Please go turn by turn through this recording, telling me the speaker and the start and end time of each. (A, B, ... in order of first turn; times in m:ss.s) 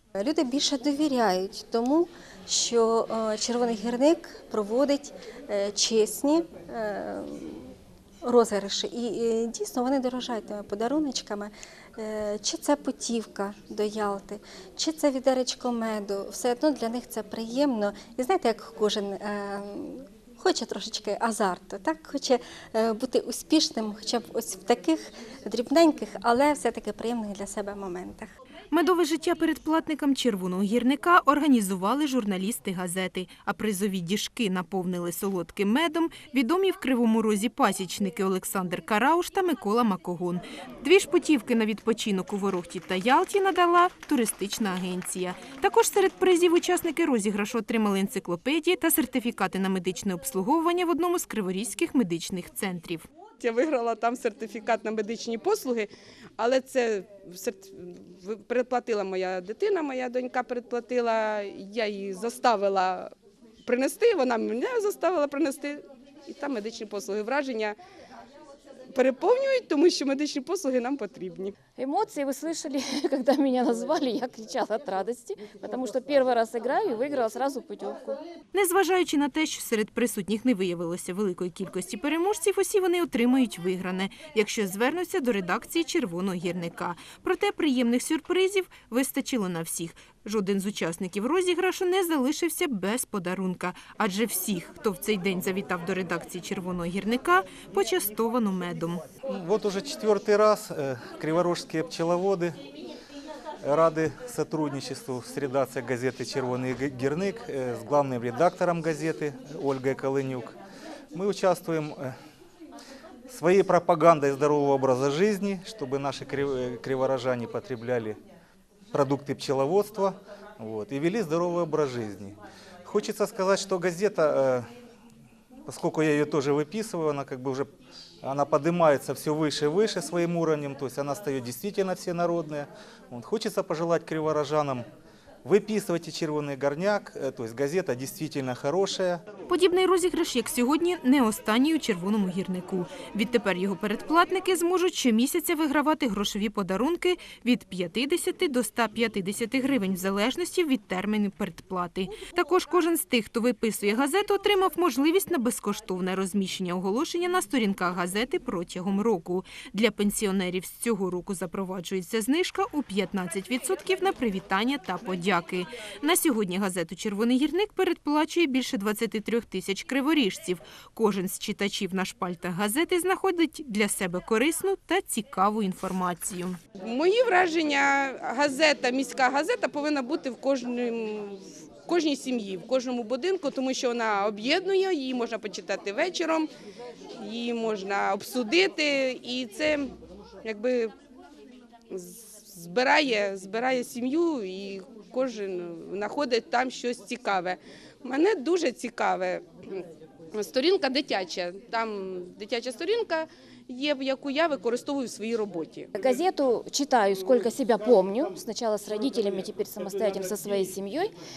0:00.2-0:07.7 A
0:08.2-0:28.3 A
0:28.7-0:53.1 B
0:53.4-1:03.1 C
1:03.6-1:07.8 C
1:08.9-1:11.5 C
1:11.8-1:18.2 D
1:18.5-1:39.0 B
1:39.3-1:42.6 E
1:43.6-1:50.6 E
1:51.1-1:52.1 E
1:53.3-1:58.2 E
1:58.9-2:04.7 E
2:05.7-2:07.7 E
2:08.2-2:14.8 E
2:15.4-2:19.2 E
2:19.5-2:56.6 B
2:56.8-3:06.5 C
3:07.2-3:09.9 C
3:10.4-3:10.9 C
3:11.9-3:25.9 C
3:25.9-3:31.1 D